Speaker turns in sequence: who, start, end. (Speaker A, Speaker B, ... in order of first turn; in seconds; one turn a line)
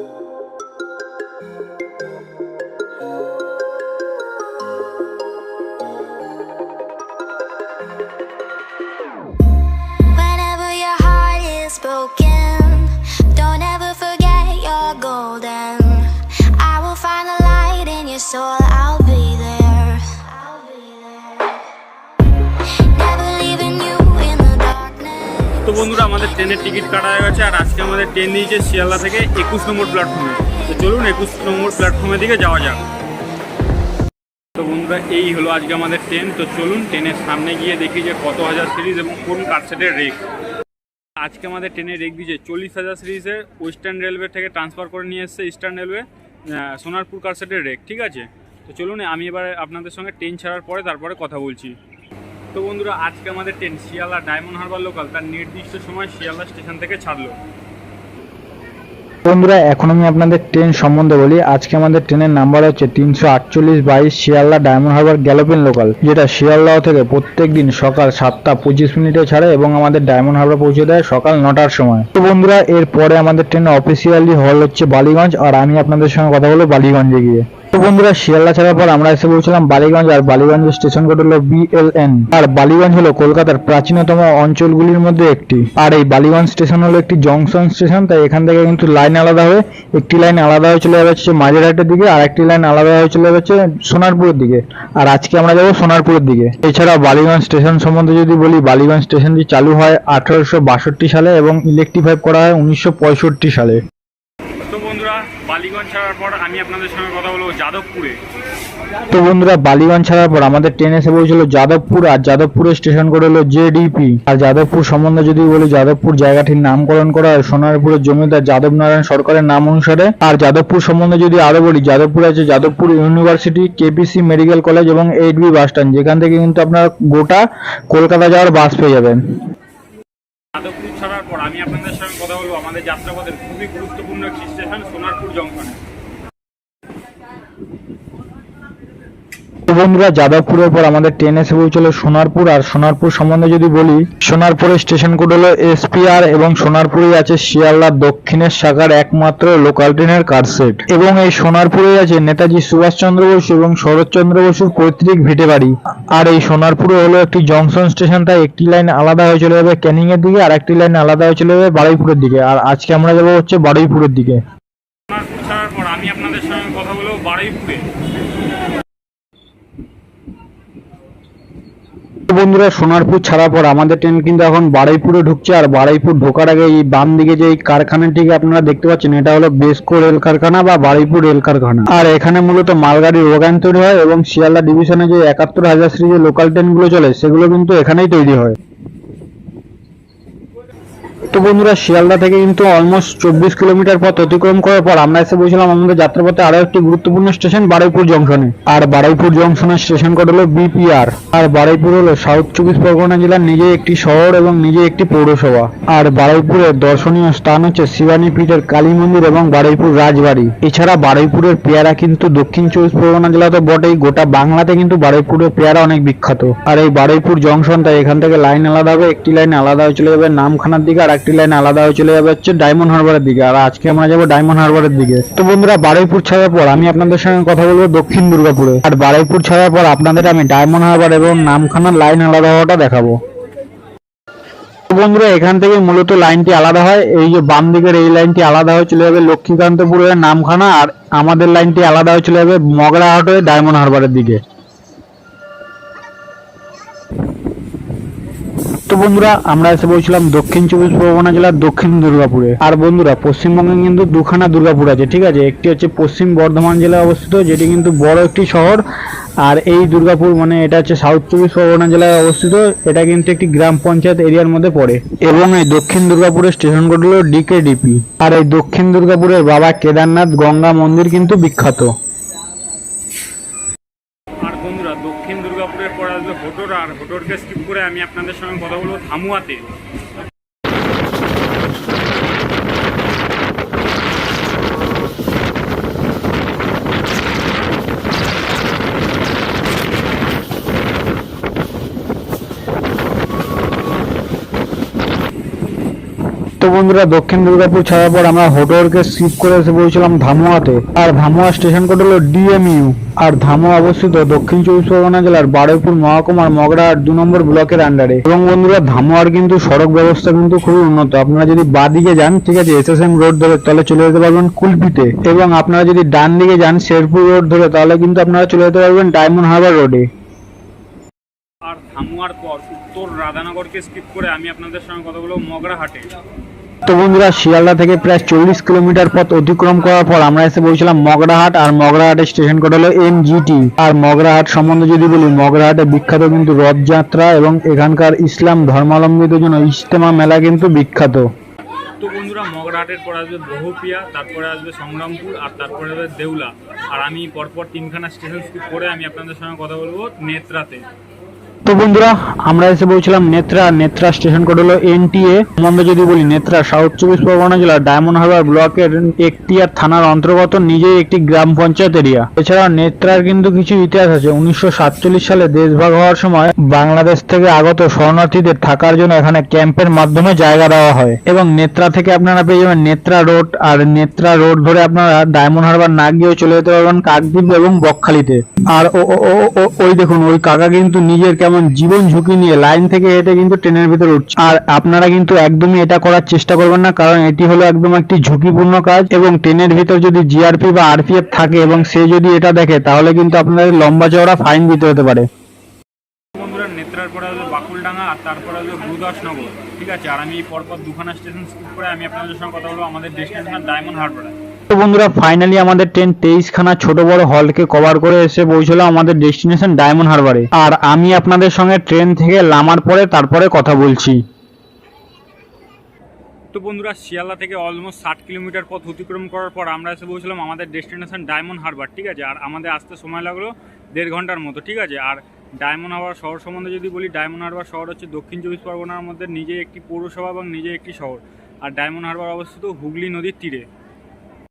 Speaker A: 10.0-21.7
Speaker A: 22.7-25.6
Speaker B: 25.6-32.8
Speaker B: 34.5-40.2
Speaker B: 41.2-51.8
Speaker B: 52.5-57.4
Speaker C: 59.2-103.8
Speaker B: 104.6-108.2
Speaker C: 109.1-129.2
Speaker B: 130.6-135.8
Speaker C: 139.7-164.4
Speaker B: 165.1-167.8
Speaker C: 172.3-188.6
Speaker C: 191.3-233.2
Speaker C: 234.9-244.4
Speaker C: 248.9-258.8
Speaker C: 259.4-271.9
Speaker B: 274.4-279.7
Speaker C: 296.6-320.1
Speaker B: 321.6-326.1
Speaker C: 326.8-341.3
Speaker B: 342.0-350.9
Speaker C: 351.6-395.3
Speaker B: 396.4-404.4
Speaker C: 404.7-414.2
Speaker B: 416.5-433.7